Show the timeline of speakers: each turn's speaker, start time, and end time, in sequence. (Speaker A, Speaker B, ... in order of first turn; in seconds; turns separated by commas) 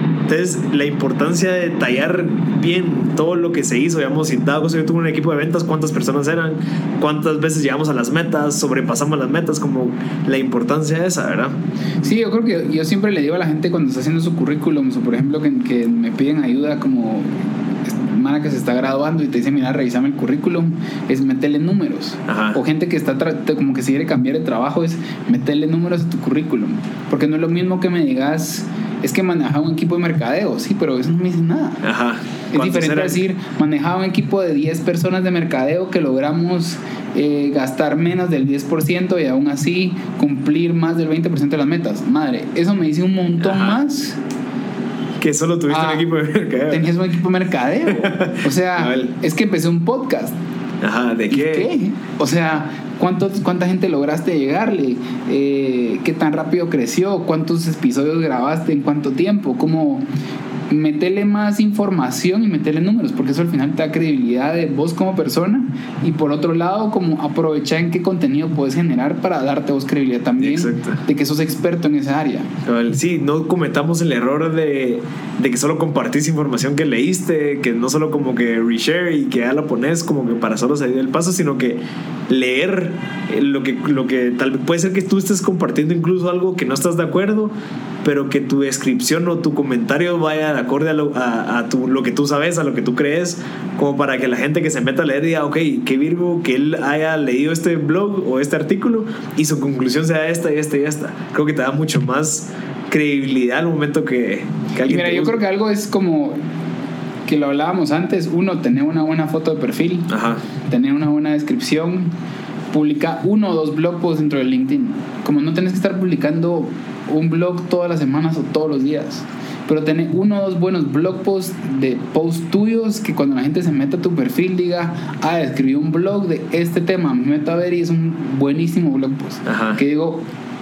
Speaker A: 0.3-11.6, Speaker B: 12.0-31.8, Speaker A: 22.3-22.6, Speaker A: 31.8-33.2, Speaker B: 32.5-44.2, Speaker A: 43.4-43.8, Speaker A: 45.2-46.9, Speaker B: 45.7-46.1, Speaker B: 46.7-50.4, Speaker A: 47.9-49.1, Speaker A: 50.8-51.7, Speaker B: 51.3-60.0, Speaker B: 60.7-72.5, Speaker A: 70.4-71.0, Speaker A: 72.6-105.4, Speaker B: 104.8-106.4, Speaker B: 107.3-110.1, Speaker A: 110.1-110.4, Speaker B: 110.7-112.1, Speaker B: 112.7-130.2, Speaker A: 129.4-129.8